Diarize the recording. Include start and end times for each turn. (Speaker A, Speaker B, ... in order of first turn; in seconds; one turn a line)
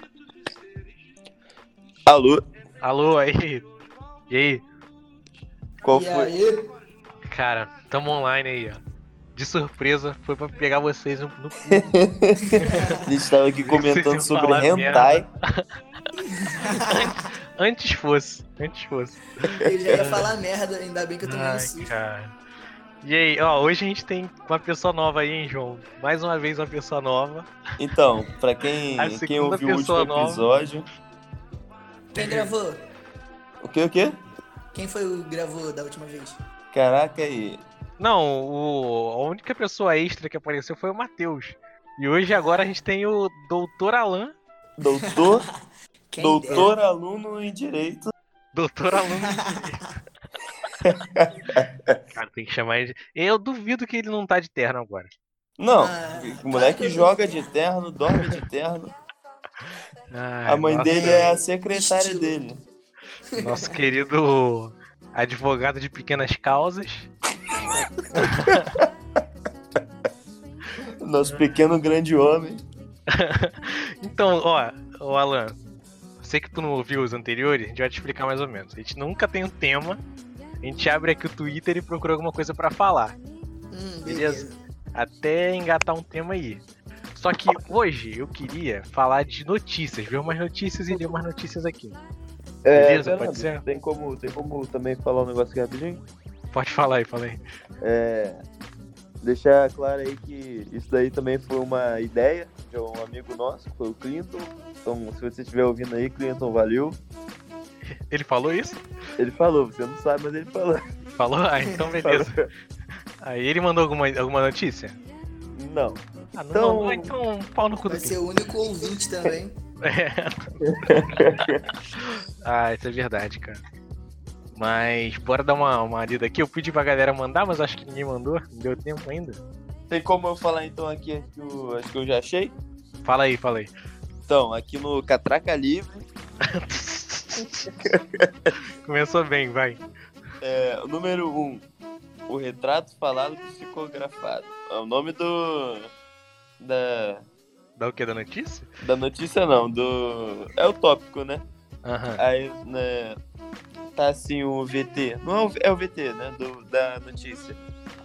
Speaker A: 2.0-2.5
Speaker B: 2.8-3.6
Speaker B: 4.3-4.6
Speaker A: 5.8-6.3
Speaker C: 5.9-6.7
Speaker B: 7.3-8.8
Speaker B: 9.3-11.9
Speaker A: 11.7-15.3
Speaker C: 12.6-13.0
Speaker B: 12.7-12.9
Speaker B: 13.6-15.6
Speaker C: 16.2-17.3
Speaker B: 16.8-20.3
Speaker A: 19.4-20.1
Speaker C: 19.6-21.9
Speaker B: 21.2-22.3
Speaker B: 23.0-27.5
Speaker A: 27.8-30.9
Speaker B: 29.0-30.5
Speaker C: 32.1-32.8
Speaker B: 32.1-32.5
Speaker A: 33.6-34.1
Speaker C: 34.7-36.4
Speaker A: 36.7-37.6
Speaker B: 38.0-44.3
Speaker A: 44.8-45.4
Speaker C: 45.0-45.5
Speaker C: 46.1-46.7
Speaker A: 46.2-48.1
Speaker B: 48.5-49.9
Speaker C: 49.0-49.8
Speaker A: 50.8-52.0
Speaker B: 52.1-55.1
Speaker A: 55.6-58.9
Speaker C: 55.8-57.5
Speaker B: 60.1-61.3
Speaker A: 60.5-62.6
Speaker C: 60.9-62.4
Speaker C: 63.3-63.8
Speaker B: 63.4-67.1
Speaker B: 68.1-68.8
Speaker A: 68.1-68.5
Speaker A: 71.0-72.6
Speaker B: 73.1-75.6
Speaker B: 76.2-80.0
Speaker B: 80.6-83.2
Speaker C: 83.7-84.6
Speaker B: 84.0-86.6
Speaker B: 87.2-92.0
Speaker A: 92.6-96.0
Speaker B: 92.7-93.6
Speaker B: 96.5-97.4
Speaker A: 97.8-98.4
Speaker A: 99.2-107.0
Speaker B: 108.1-108.8
Speaker A: 109.2-110.8
Speaker B: 111.2-112.4
Speaker A: 112.0-112.5
Speaker B: 113.2-115.0
Speaker A: 115.5-116.0
Speaker B: 116.3-118.2
Speaker A: 116.5-117.1
Speaker C: 117.9-119.5
Speaker B: 119.8-120.5
Speaker A: 120.6-121.6
Speaker B: 122.0-123.6
Speaker B: 124.5-129.4
Speaker A: 129.9-132.6
Speaker B: 133.0-133.7
Speaker A: 134.3-136.0
Speaker B: 136.4-137.7
Speaker A: 137.7-138.3
Speaker B: 138.8-139.8
Speaker A: 140.4-141.7
Speaker A: 142.3-145.9
Speaker A: 146.6-147.2
Speaker B: 147.8-148.7
Speaker A: 148.8-151.4
Speaker B: 151.8-152.2
Speaker A: 152.2-153.2
Speaker A: 153.9-157.6